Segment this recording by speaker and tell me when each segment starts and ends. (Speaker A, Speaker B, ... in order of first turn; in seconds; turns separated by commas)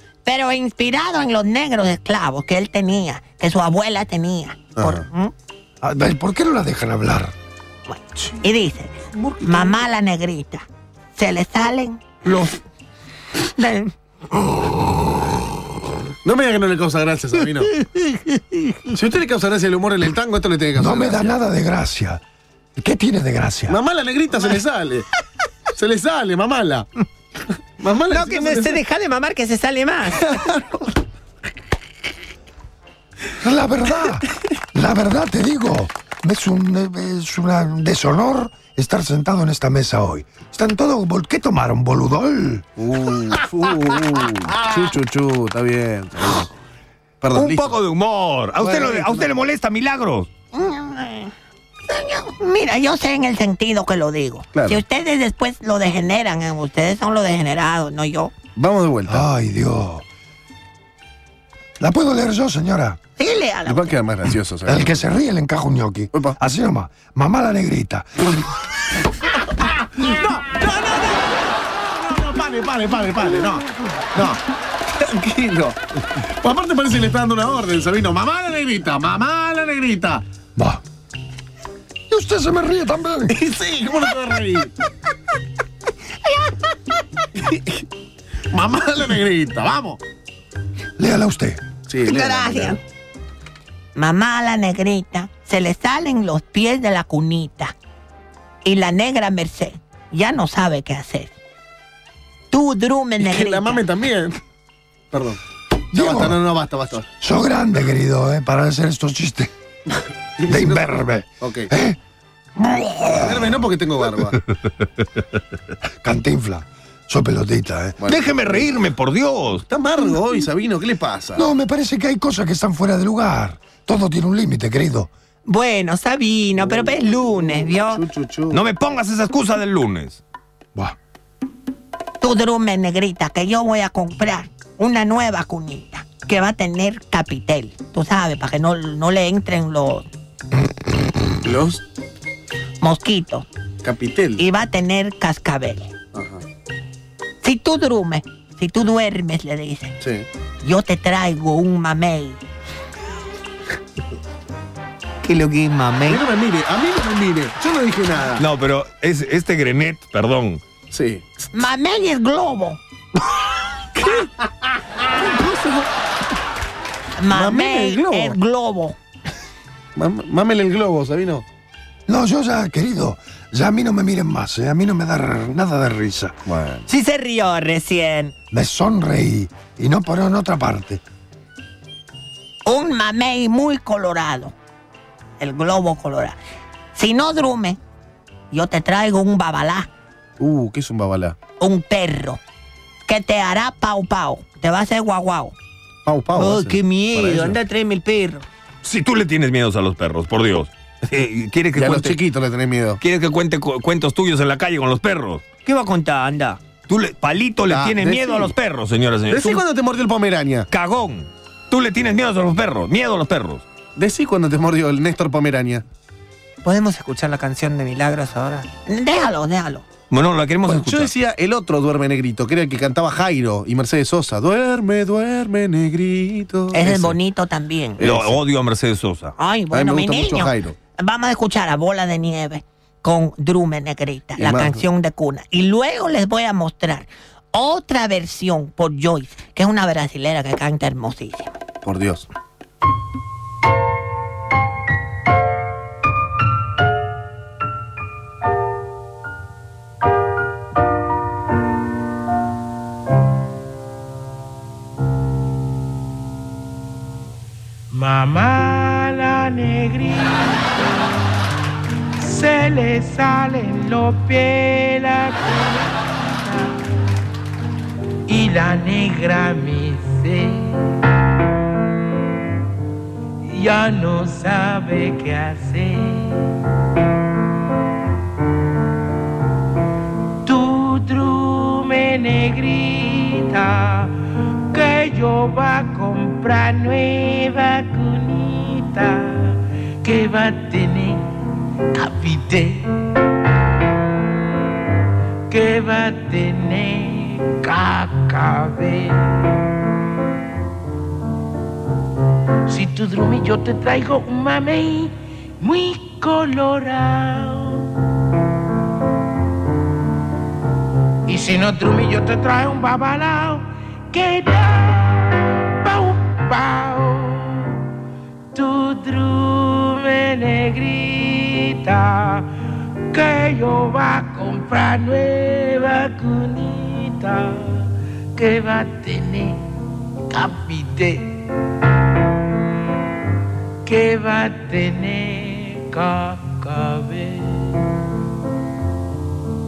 Speaker A: 0.3-5.3, Speaker B: 4.7-5.1, Speaker C: 5.8-7.3, Speaker A: 7.9-12.5, Speaker B: 9.1-9.8, Speaker A: 13.4-14.4, Speaker B: 16.2-17.7, Speaker A: 17.6-18.9, Speaker B: 18.9-21.4, Speaker C: 20.8-22.2, Speaker C: 22.8-23.8, Speaker B: 23.7-25.1, Speaker B: 25.7-26.9, Speaker B: 27.8-28.8, Speaker A: 28.1-30.3, Speaker B: 30.1-30.9, Speaker C: 33.4-42.7, Speaker B: 42.8-46.5, Speaker B: 47.2-47.8, Speaker D: 47.3-50.3, Speaker B: 48.6-49.3, Speaker A: 50.5-51.3, Speaker A: 51.9-58.5, Speaker B: 54.5-54.8, Speaker B: 58.5-59.3, Speaker C: 59.1-60.0, Speaker C: 61.8-63.0, Speaker A: 63.2-64.0, Speaker B: 63.7-65.0, Speaker C: 64.7-68.3, Speaker B: 69.5-80.2, Speaker C: 80.6-80.8, Speaker C: 82.1-83.3, Speaker B: 83.3-84.7, Speaker A: 86.2-86.8, Speaker B: 88.5-90.0, Speaker C: 91.0-91.7, Speaker B: 91.9-92.8, Speaker A: 92.0-92.8, Speaker A: 94.0-97.7, Speaker A: 98.6-101.3, Speaker A: 102.5-103.8, Speaker B: 103.2-104.4, Speaker B: 105.1-105.4, Speaker C: 105.9-106.4, Speaker B: 106.0-107.1, Speaker C: 107.2-109.5, Speaker B: 110.4-110.9, Speaker C: 110.5-112.0, Speaker B: 111.4-111.7, Speaker C: 112.6-113.7, Speaker B: 113.2-114.4, Speaker C: 116.0-118.0, Speaker B: 118.0-118.7, Speaker D: 118.0-119.6, Speaker B: 119.7-121.5, Speaker C: 121.4-125.1, Speaker A: 125.5-128.0, Speaker B: 126.7-128.6, Speaker D: 128.5-130.2, Speaker A: 132.2-140.1, Speaker B: 141.4-141.8, Speaker A: 142.8-143.5, Speaker B: 143.8-144.4, Speaker A: 144.4-145.9, Speaker B: 146.1-146.4, Speaker A: 147.4-149.9, Speaker B: 150.0-150.3, Speaker A: 150.6-152.4, Speaker A: 155.2-156.2, Speaker B: 156.1-158.4, Speaker D: 158.4-160.6, Speaker B: 160.9-161.4, Speaker A: 161.5-162.8, Speaker B: 164.0-165.9, Speaker A: 167.2-169.0, Speaker B: 167.3-168.4, Speaker B: 170.0-171.4, Speaker C: 172.1-176.4, Speaker B: 176.5-176.8, Speaker A: 176.9-178.4, Speaker C: 178.5-181.0, Speaker A: 182.7-184.6, Speaker A: 185.4-186.4, Speaker A: 186.9-187.8, Speaker A: 188.5-189.9, Speaker B: 190.4-191.4, Speaker A: 191.5-192.4, Speaker A: 193.1-195.6, Speaker B: 196.1-197.6, Speaker A: 196.3-198.4, Speaker D: 198.8-202.2, Speaker B: 201.8-203.0, Speaker D: 203.0-205.4, Speaker A: 205.7-206.6, Speaker D: 206.9-209.6, Speaker B: 207.7-208.6, Speaker B: 209.3-210.7, Speaker D: 210.7-213.6, Speaker B: 214.0-215.8, Speaker A: 216.6-219.9, Speaker D: 220.1-221.1, Speaker B: 220.7-227.2, Speaker A: 226.7-228.0, Speaker B: 228.0-228.4, Speaker D: 228.0-229.3, Speaker A: 229.4-241.6, Speaker B: 229.7-230.8, Speaker B: 234.4-234.8, Speaker B: 241.8-242.3, Speaker E: 257.9-260.7, Speaker E: 262.2-266.8, Speaker E: 268.3-270.8, Speaker E: 273.5-276.4, Speaker E: 280.5-284.1, Speaker E: 284.7-291.3, Speaker E: 291.9-292.9, Speaker E: 295.5-299.2, Speaker E: 302.7-307.9, Speaker E: 311.3-317.8, Speaker E: 318.6-322.5, Speaker E: 323.1-327.8, Speaker E: 328.4-329.6, Speaker E: 330.3-331.3, Speaker E: 333.9-337.6